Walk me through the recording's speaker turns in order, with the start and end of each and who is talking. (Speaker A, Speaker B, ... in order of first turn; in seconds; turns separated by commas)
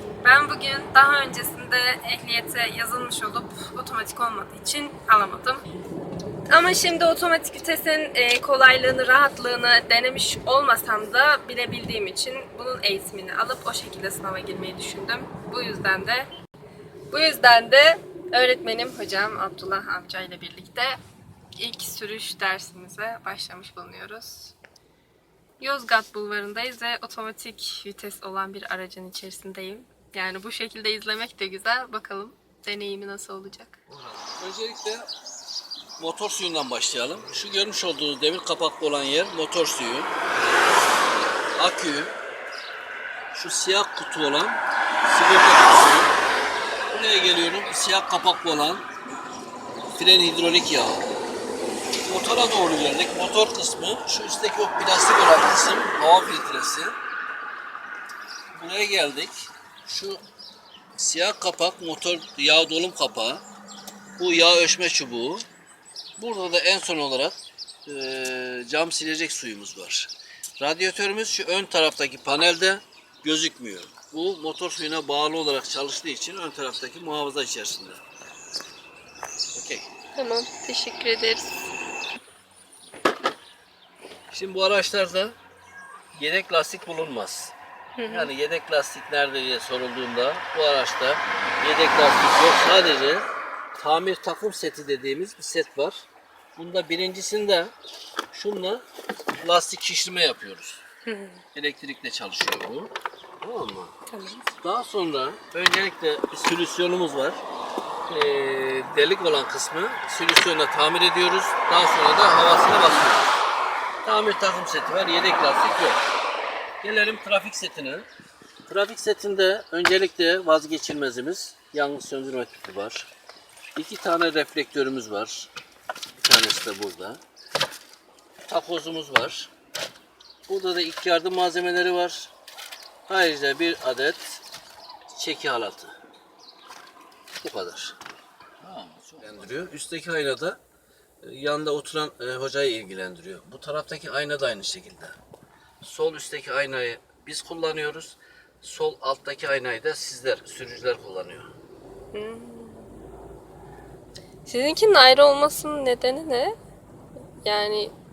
Speaker A: 0.2-5.6, Speaker A: 6.5-16.3, Speaker A: 17.1-21.0, Speaker A: 21.6-24.6, Speaker A: 25.6-33.8, Speaker B: 33.9-35.1, Speaker B: 36.0-40.1, Speaker B: 41.6-42.1, Speaker B: 43.3-46.1, Speaker B: 46.9-48.9, Speaker B: 50.0-51.0, Speaker B: 52.0-57.0, Speaker B: 58.5-60.2, Speaker B: 61.0-63.4, Speaker B: 64.2-65.5, Speaker B: 66.2-78.0, Speaker B: 79.5-79.9, Speaker A: 80.2-81.6, Speaker B: 84.3-85.3, Speaker B: 86.1-87.5, Speaker A: 88.0-88.3, Speaker B: 88.1-96.0, Speaker B: 96.6-97.7, Speaker B: 98.3-98.8, Speaker B: 99.4-100.8, Speaker A: 101.0-101.4, Speaker B: 101.5-104.0, Speaker A: 104.1-104.5, Speaker B: 104.6-107.4, Speaker B: 108.1-113.3, Speaker B: 114.0-116.0, Speaker B: 116.8-118.1, Speaker B: 118.7-123.1, Speaker B: 123.8-125.5, Speaker B: 126.2-127.2, Speaker B: 128.5-129.5, Speaker B: 130.5-132.3, Speaker B: 133.1-134.4, Speaker B: 135.1-136.0, Speaker B: 137.4-138.0, Speaker B: 138.6-140.6, Speaker B: 141.2-145.2, Speaker B: 145.8-151.5, Speaker A: 152.1-152.9, Speaker A: 154.5-156.6, Speaker A: 157.4-157.9